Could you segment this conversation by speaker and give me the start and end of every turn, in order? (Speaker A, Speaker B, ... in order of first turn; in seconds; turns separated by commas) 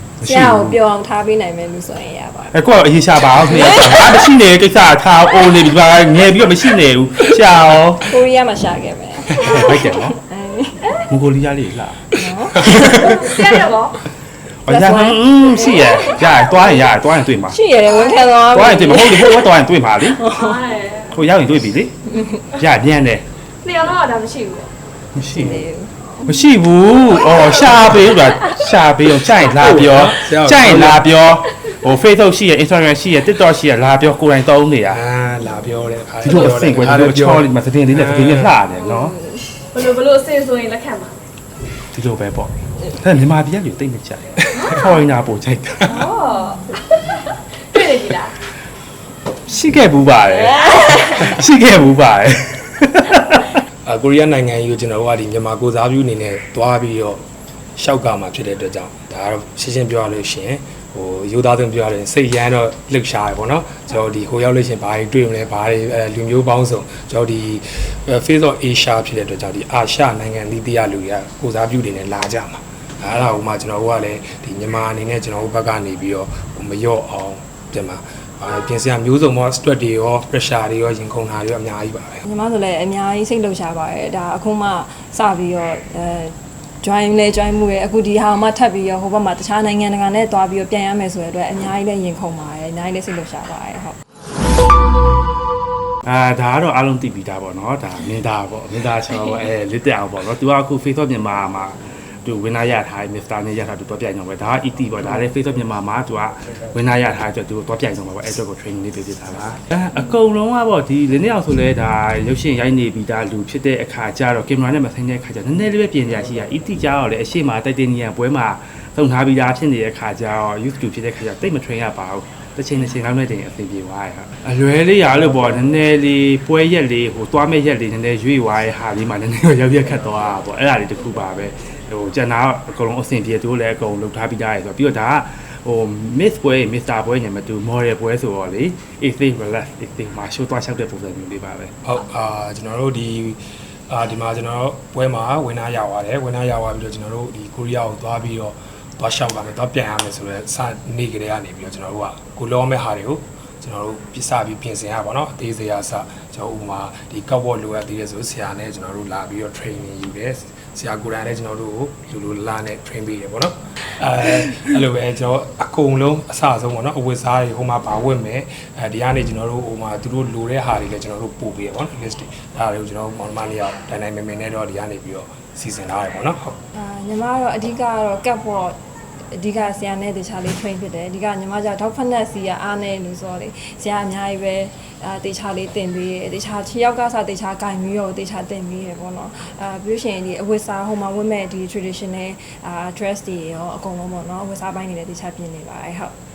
Speaker A: 0.2-0.8, Speaker B: 0.2-2.5, Speaker A: 2.5-8.2, Speaker B: 3.4-4.3, Speaker B: 8.0-11.0, Speaker A: 9.3-10.2, Speaker C: 9.4-9.8, Speaker A: 11.1-13.0, Speaker B: 12.2-13.4, Speaker D: 12.6-13.0, Speaker C: 13.0-14.0, Speaker A: 14.7-17.6, Speaker B: 14.7-16.5, Speaker C: 15.6-16.4, Speaker B: 17.4-20.6, Speaker C: 17.9-18.4, Speaker A: 18.5-20.3, Speaker C: 20.4-21.2, Speaker A: 21.1-22.0, Speaker B: 22.1-22.4, Speaker A: 22.5-23.3, Speaker C: 23.6-24.7, Speaker A: 25.1-25.6, Speaker B: 25.3-26.3, Speaker A: 26.2-35.0, Speaker C: 27.1-28.6, Speaker D: 29.4-31.1, Speaker D: 34.9-38.6, Speaker A: 36.2-39.2, Speaker B: 38.8-39.5, Speaker C: 39.7-41.1, Speaker A: 41.9-46.0, Speaker C: 44.5-45.0, Speaker C: 45.8-48.4, Speaker A: 49.5-53.6, Speaker D: 53.9-57.2, Speaker D: 57.8-82.2, Speaker B: 82.3-94.0, Speaker A: 96.0-141.7, Speaker D: 141.8-176.6, Speaker B: 176.8-178.8, Speaker B: 179.3-196.1